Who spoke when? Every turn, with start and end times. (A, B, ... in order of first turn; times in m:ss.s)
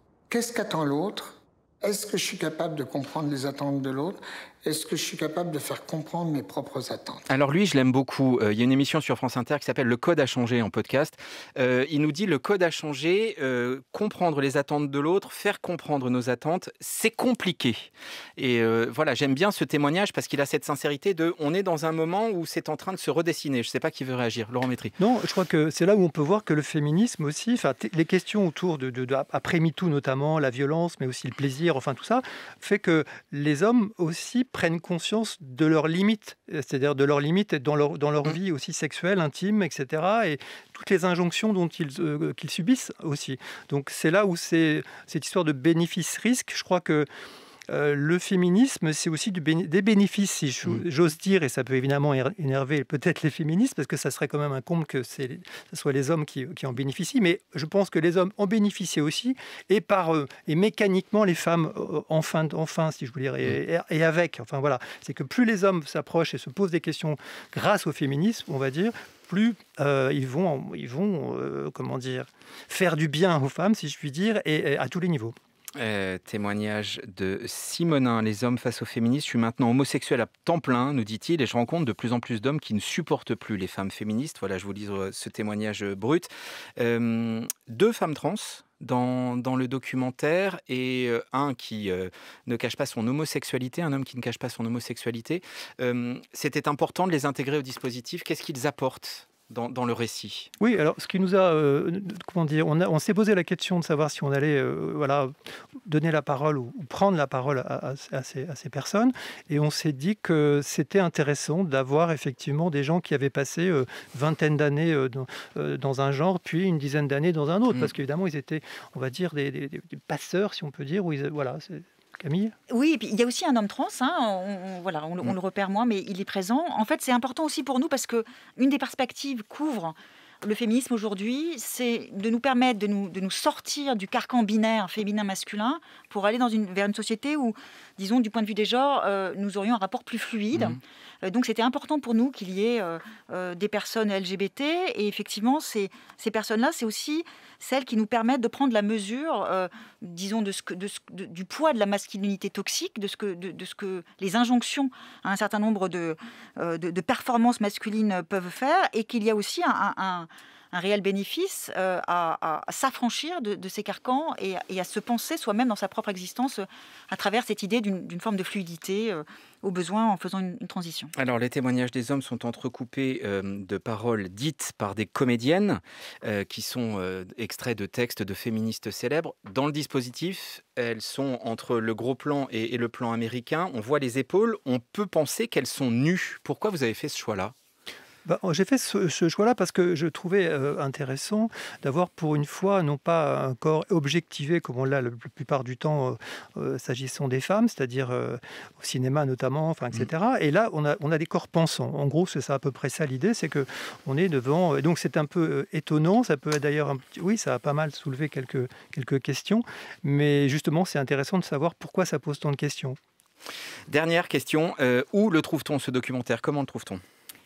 0:00.3-0:07.2 A
0:07.3-0:24.9 B
0:25.0-0:47.1 C
0:47.7-1:15.3 C
1:15.8-1:40.5 B
1:40.6-1:45.3 C
1:45.9-2:02.6 C
2:02.7-2:51.1 D
2:51.2-3:07.5 B
3:08.2-3:33.0 C
3:33.9-3:37.0 B